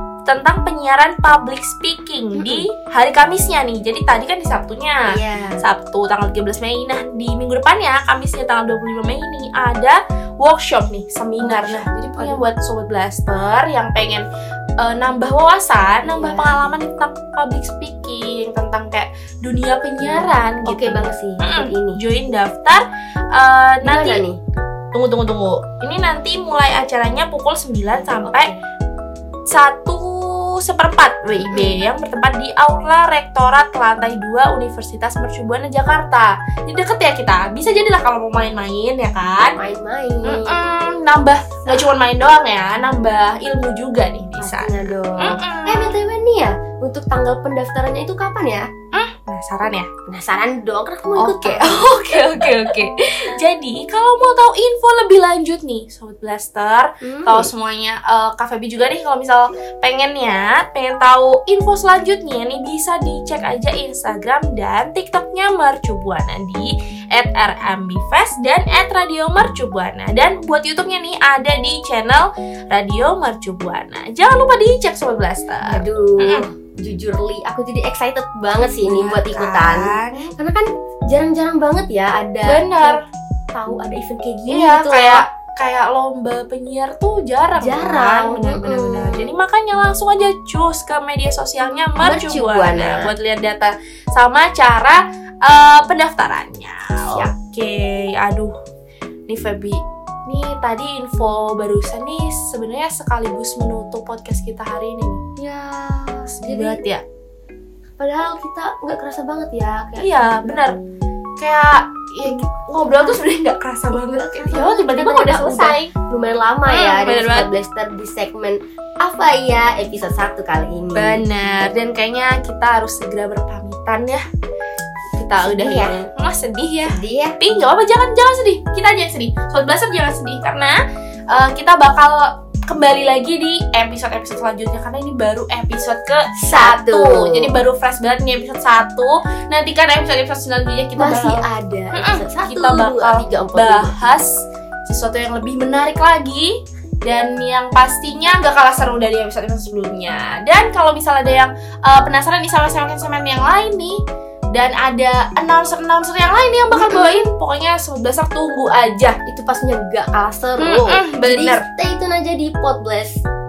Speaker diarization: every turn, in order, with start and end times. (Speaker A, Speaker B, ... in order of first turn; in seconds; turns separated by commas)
Speaker A: 0.3-5.0, Speaker B: 2.4-2.6, Speaker B: 5.1-5.6, Speaker A: 5.6-14.2, Speaker B: 11.4-12.4, Speaker A: 14.8-24.2, Speaker B: 16.1-16.6, Speaker B: 20.0-22.0, Speaker B: 23.8-24.4, Speaker A: 24.9-28.5, Speaker B: 28.2-28.6, Speaker A: 29.5-39.6, Speaker B: 31.5-31.8, Speaker B: 39.6-40.6, Speaker A: 40.2-46.0, Speaker B: 44.4-48.6, Speaker A: 48.9-49.9, Speaker B: 50.1-52.5, Speaker A: 51.2-76.4, Speaker B: 57.0-57.5, Speaker B: 75.7-83.0, Speaker A: 78.8-80.3, Speaker A: 82.5-83.0, Speaker B: 83.5-85.2, Speaker A: 84.5-98.5, Speaker B: 87.6-89.3, Speaker B: 92.0-93.1, Speaker A: 99.3-105.2, Speaker B: 105.4-106.8, Speaker A: 106.3-107.0, Speaker B: 108.0-110.7, Speaker A: 110.0-110.8, Speaker A: 111.4-115.9, Speaker B: 112.3-113.2, Speaker B: 113.9-121.2, Speaker A: 116.7-117.5, Speaker A: 121.0-124.2, Speaker A: 125.2-130.8, Speaker B: 125.4-126.1, Speaker B: 126.9-127.4, Speaker A: 131.3-154.0, Speaker B: 136.4-137.5, Speaker B: 141.0-144.1, Speaker A: 154.5-159.2, Speaker B: 156.7-157.2, Speaker B: 159.3-163.2, Speaker A: 160.6-161.7